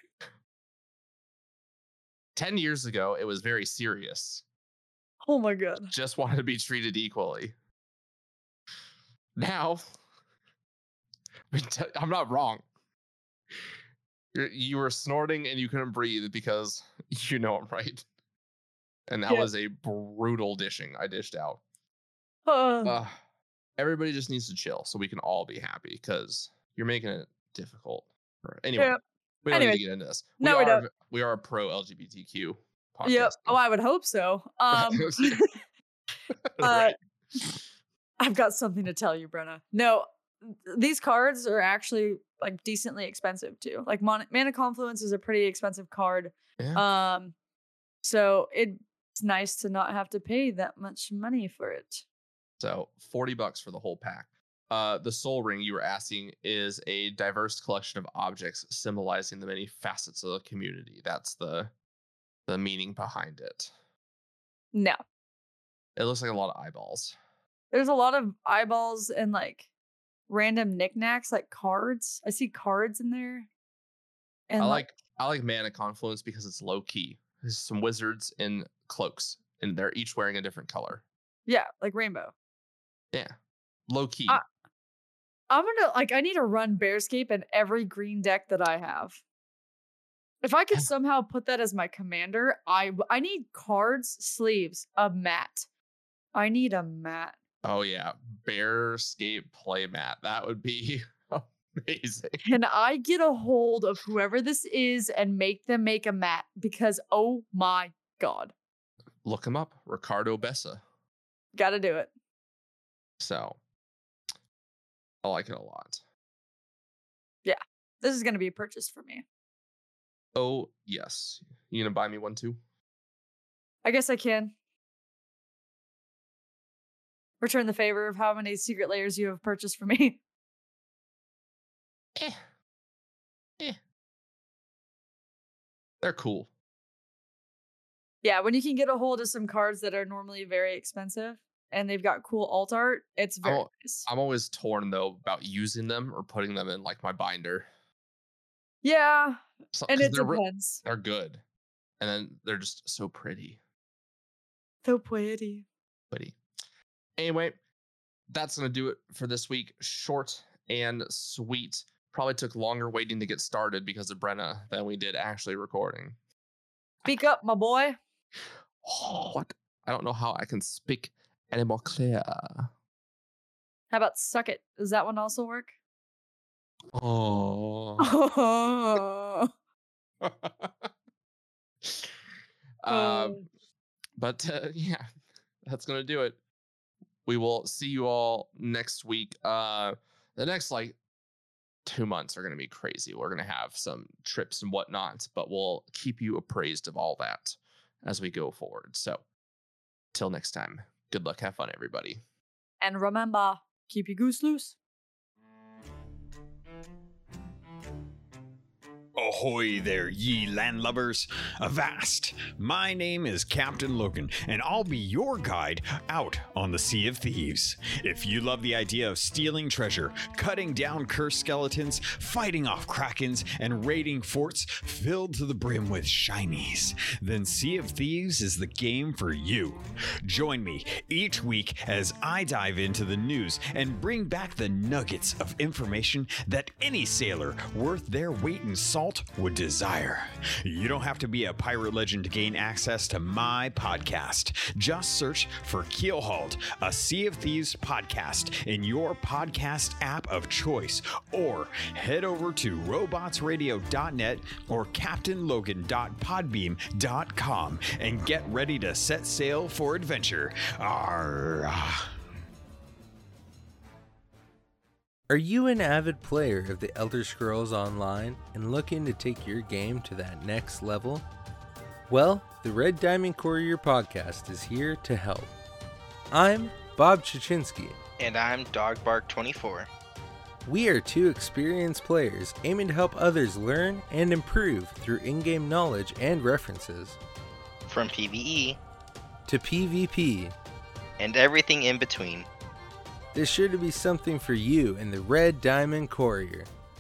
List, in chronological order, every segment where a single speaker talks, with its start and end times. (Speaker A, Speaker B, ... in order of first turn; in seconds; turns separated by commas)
Speaker A: 2.4-4.4, Speaker B: 5.3-5.9, Speaker A: 5.9-7.5, Speaker A: 9.4-9.8, Speaker A: 11.5-12.6, Speaker A: 14.3-18.0, Speaker A: 19.1-21.6, Speaker B: 22.4-22.9, Speaker A: 22.8-23.1, Speaker A: 23.8-33.6, Speaker B: 29.5-29.8, Speaker B: 30.4-30.9, Speaker B: 33.0-35.5, Speaker A: 34.7-35.4, Speaker A: 36.5-37.0, Speaker B: 36.6-37.0, Speaker B: 38.2-47.3, Speaker A: 46.6-46.8, Speaker B: 48.0-52.0, Speaker A: 52.6-61.7, Speaker A: 62.5-63.7, Speaker B: 64.7-65.0, Speaker A: 66.0-67.2, Speaker B: 67.7-69.7, Speaker B: 70.3-73.5, Speaker B: 74.5-74.8, Speaker A: 74.6-81.0, Speaker B: 81.5-82.3, Speaker A: 83.9-84.4, Speaker B: 85.5-89.2, Speaker B: 90.4-95.7, Speaker B: 96.3-97.3, Speaker A: 97.6-102.4, Speaker B: 102.4-108.5, Speaker A: 109.2-110.8, Speaker B: 111.5-112.1, Speaker A: 113.2-113.6, Speaker A: 115.2-116.0, Speaker B: 117.4-119.2, Speaker A: 120.3-122.6, Speaker B: 123.8-124.5, Speaker B: 127.4-130.2, Speaker A: 136.0-136.5, Speaker B: 138.2-144.1, Speaker A: 143.4-147.7, Speaker B: 148.8-150.8, Speaker A: 149.7-151.4, Speaker A: 152.0-153.6, Speaker B: 154.8-155.6, Speaker A: 156.1-156.4, Speaker A: 157.2-157.6, Speaker A: 158.3-166.2, Speaker B: 167.0-168.0, Speaker A: 168.8-172.7, Speaker B: 173.9-175.7, Speaker A: 176.9-178.1, Speaker B: 178.0-179.5, Speaker A: 180.2-180.9, Speaker A: 181.8-182.1, Speaker A: 182.8-183.4, Speaker B: 182.9-183.4, Speaker A: 184.2-185.1, Speaker A: 185.6-186.4, Speaker A: 187.2-190.9, Speaker A: 191.8-199.2, Speaker A: 200.1-202.2, Speaker B: 202.8-204.7, Speaker C: 209.2-262.0, Speaker D: 265.3-271.2, Speaker D: 272.1-275.5, Speaker D: 276.3-278.0, Speaker E: 278.2-279.9, Speaker D: 280.6-287.2, Speaker E: 287.9-288.8, Speaker D: 289.4-290.5, Speaker E: 291.2-292.5, Speaker D: 293.3-296.7